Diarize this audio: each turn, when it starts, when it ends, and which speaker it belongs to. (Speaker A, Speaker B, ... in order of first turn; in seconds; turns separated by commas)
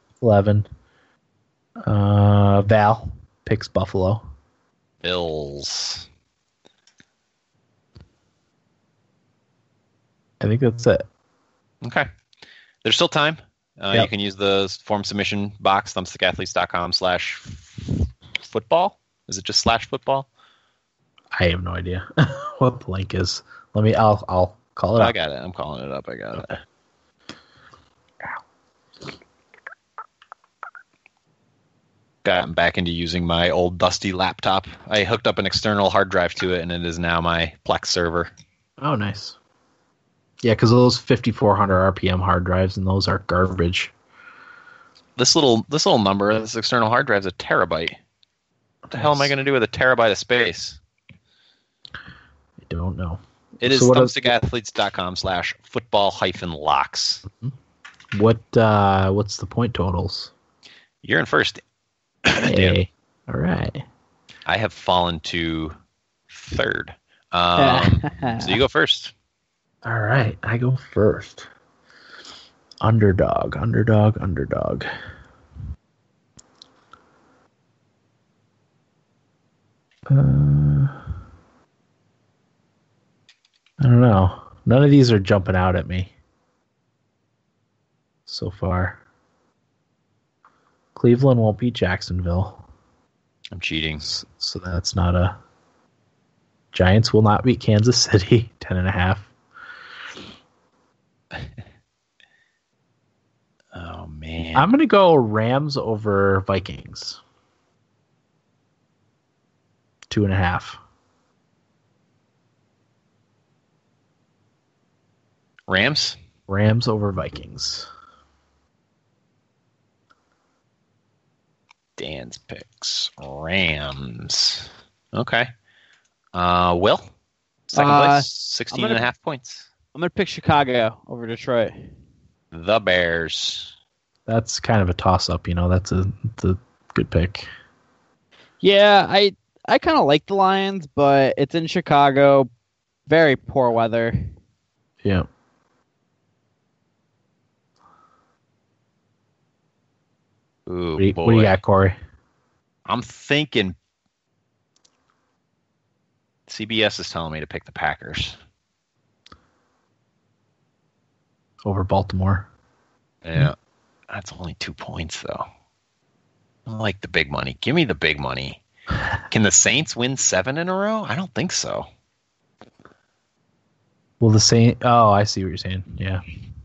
Speaker A: 0.2-0.7, Speaker A: 1.8-4.2, Speaker B: 5.0-6.1, Speaker A: 10.4-11.1, Speaker B: 11.8-12.1, Speaker B: 12.8-20.3, Speaker A: 21.4-25.1, Speaker B: 25.0-26.6, Speaker B: 32.2-38.3, Speaker A: 38.8-39.4, Speaker A: 40.4-43.9, Speaker B: 45.2-48.0, Speaker A: 48.9-49.3, Speaker B: 48.9-50.8, Speaker A: 52.6-54.3, Speaker B: 53.6-57.2, Speaker A: 57.3-57.5, Speaker A: 58.1-60.3, Speaker B: 61.0-61.6, Speaker B: 62.2-62.8, Speaker A: 62.4-63.8, Speaker B: 64.5-65.8, Speaker B: 66.3-69.1, Speaker C: 67.6-68.5, Speaker A: 69.8-71.5, Speaker A: 72.8-74.9, Speaker A: 80.1-81.0, Speaker A: 83.8-86.1, Speaker A: 88.3-89.0, Speaker A: 90.9-92.6, Speaker B: 93.5-94.1, Speaker A: 94.0-95.3, Speaker A: 96.7-99.3, Speaker B: 103.7-104.7, Speaker A: 104.5-107.2, Speaker A: 110.1-110.8, Speaker B: 115.7-116.2, Speaker A: 116.5-117.9, Speaker B: 122.0-125.5, Speaker B: 126.3-127.1, Speaker B: 127.7-129.7, Speaker C: 127.7-129.0, Speaker C: 129.9-131.9, Speaker B: 132.5-133.7, Speaker A: 134.2-137.5, Speaker C: 138.6-142.5, Speaker C: 143.1-144.3, Speaker B: 150.7-151.6, Speaker A: 151.0-152.0, Speaker B: 152.8-153.8, Speaker B: 156.5-158.3, Speaker A: 161.6-162.5, Speaker B: 163.2-163.6, Speaker B: 164.1-165.4, Speaker B: 166.7-168.6, Speaker B: 169.3-171.9, Speaker A: 174.2-176.2